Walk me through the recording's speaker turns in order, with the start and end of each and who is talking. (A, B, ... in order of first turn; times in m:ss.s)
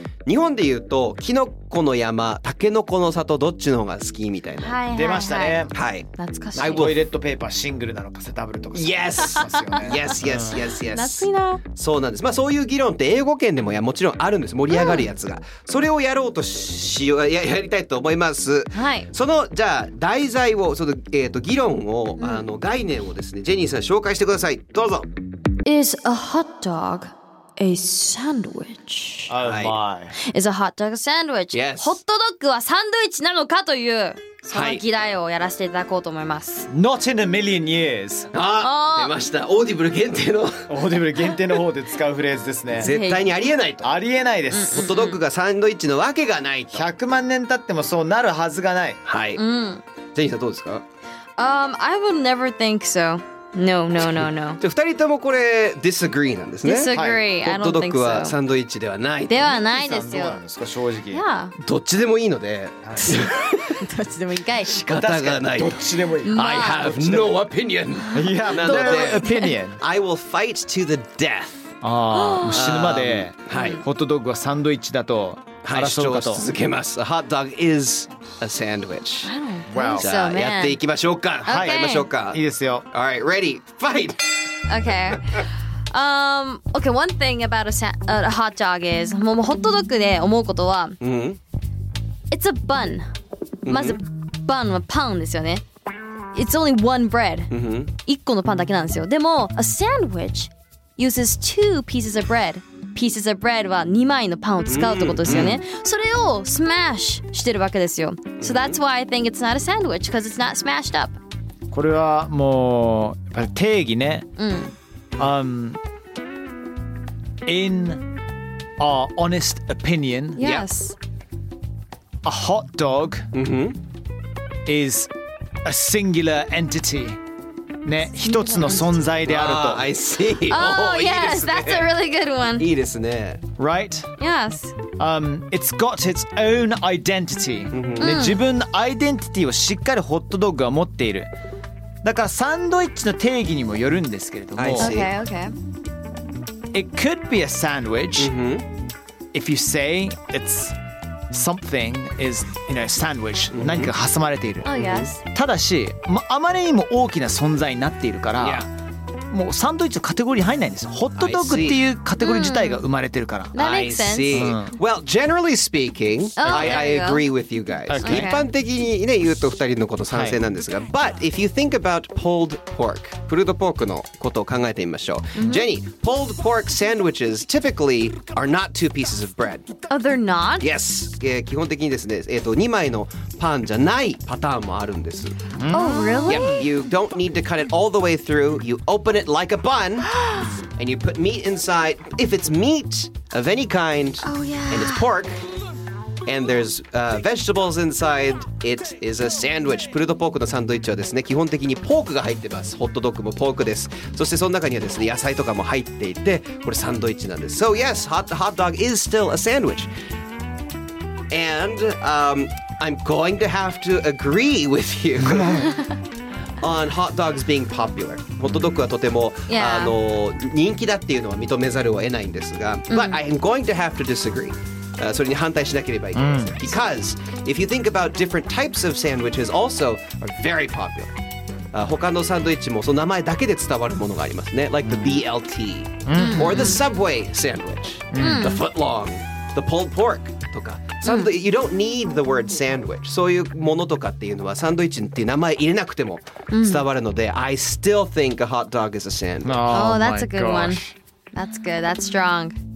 0:00.2-0:04.8 A
0:04.6-0:06.9 B
0:04.9-0:05.7 C
0:05.7-0:06.9 A
0:06.5-0:10.6 C
0:08.7-0:25.1 A
0:09.4-0:10.0 B
0:10.5-0:11.6 B
0:14.7-0:15.1 B
0:18.7-0:19.1 B
0:22.2-0:22.4 B
0:25.6-0:29.3 B
0:29.3-0:30.2 C
0:29.4-0:29.8 A
0:30.2-0:36.7 B
0:31.5-0:32.0 A
0:34.5-0:34.8 A
0:36.7-0:38.3 C
0:38.3-0:40.6 A
0:38.6-0:39.2 B
0:40.7-0:42.9 C
0:42.8-0:43.9 A
0:42.8-0:43.2 B
0:43.8-0:44.9 C
0:44.5-0:45.2 B
0:44.7-0:46.9 A
0:46.7-0:49.0 C
0:49.0-0:49.4 A
0:49.4-0:49.8 B
0:50.1-0:50.8 A
0:51.4-0:54.6 B
0:54.0-0:59.6 A
0:56.6-0:58.4 B
0:56.9-0:57.2 C
0:59.3-1:00.4 B
0:59.6-1:01.2 C
1:01.1-1:01.5 B
1:01.6-1:03.8 A
1:02.8-1:03.2 C
1:03.6-1:04.8 B
1:04.6-1:05.8 A
1:04.9-1:07.4 C
1:06.2-1:06.9 B
1:06.4-1:11.8 A
1:08.1-1:09.5 B
1:08.1-1:09.8 C
1:11.8-1:16.5 C
1:12.1-1:12.7 B
1:12.5-1:13.8 A
1:13.5-1:13.8 B
1:15.6-1:19.3 A
1:19.2-1:20.8 B
1:19.7-1:20.1 C
1:20.0-1:24.3 A
1:21.4-1:22.1 B
1:21.4-1:22.9 C
1:24.7-1:31.0 B
1:31.0-1:31.4 A
1:32.3-1:33.1 B
1:33.6-1:34.0 A
1:33.6-1:35.6 B
1:36.4-1:37.5 B
1:37.5-1:37.9 A
1:38.0-1:51.2 B
1:44.6-1:45.6 A
1:48.4-1:48.8 A
1:51.7-1:54.3 C
1:54.4-1:54.7 B
1:55.2-1:55.8 C
1:57.4-1:58.1 C
1:58.8-2:00.4 C
2:00.4-2:01.0 B
2:00.4-2:00.6 A
2:02.2-2:03.3 C
2:03.3-2:03.8 A
2:04.6-2:05.1 C
2:05.6-2:07.2 C
2:07.8-2:09.9 C
2:08.2-2:09.0 B
2:09.2-2:11.9 A
2:10.4-2:12.7 B
2:12.6-2:13.4 A
2:13.6-2:14.1 C
2:14.2-2:14.8 B
2:15.0-2:21.3 C
2:17.7-2:18.2 A
2:18.0-2:18.4 B
2:22.0-2:24.9 C
2:24.6-2:25.1 A
2:24.8-2:25.5 B
2:26.7-2:28.3 C
2:28.2-2:28.7 A
2:29.3-2:30.8 C
2:31.3-2:34.7 C
2:33.5-2:33.9 A
2:34.6-2:35.2 B
2:34.8-2:35.1 A
2:35.2-2:38.7 C
2:38.4-2:38.7 A
2:39.3-2:43.5 C
2:41.2-2:41.8 A
2:42.2-2:42.8 B
2:43.5-2:44.6 B
2:43.5-2:59.7 A
2:44.3-2:44.8 C
2:46.4-2:47.3 B
2:46.4-2:46.9 C
2:47.9-2:48.4 C
2:48.0-2:48.4 B
2:50.1-2:50.4 C
2:55.4-2:55.6 B
2:59.9-3:00.7 B
3:00.6-3:05.4 A
3:05.6-3:06.5 C
3:05.7-3:06.7 B
3:06.2-3:10.1 A
3:10.0-3:10.5 B
3:10.7-3:15.4 A
3:14.2-3:15.1 B
3:16.2-3:29.9 A
3:31.3-3:35.7 A
3:36.6-3:51.1 A
3:39.5-3:40.0 B
3:42.9-3:43.2 B
3:46.1-3:46.6 C
3:51.7-4:09.9 A
3:54.8-3:55.2 C
3:56.0-3:56.7 C
3:56.1-3:56.8 B
3:58.1-3:58.6 C
3:58.2-3:58.6 B
4:01.0-4:01.3 B
4:06.5-4:06.9 B
4:09.4-4:10.9 C
4:09.7-4:12.6 B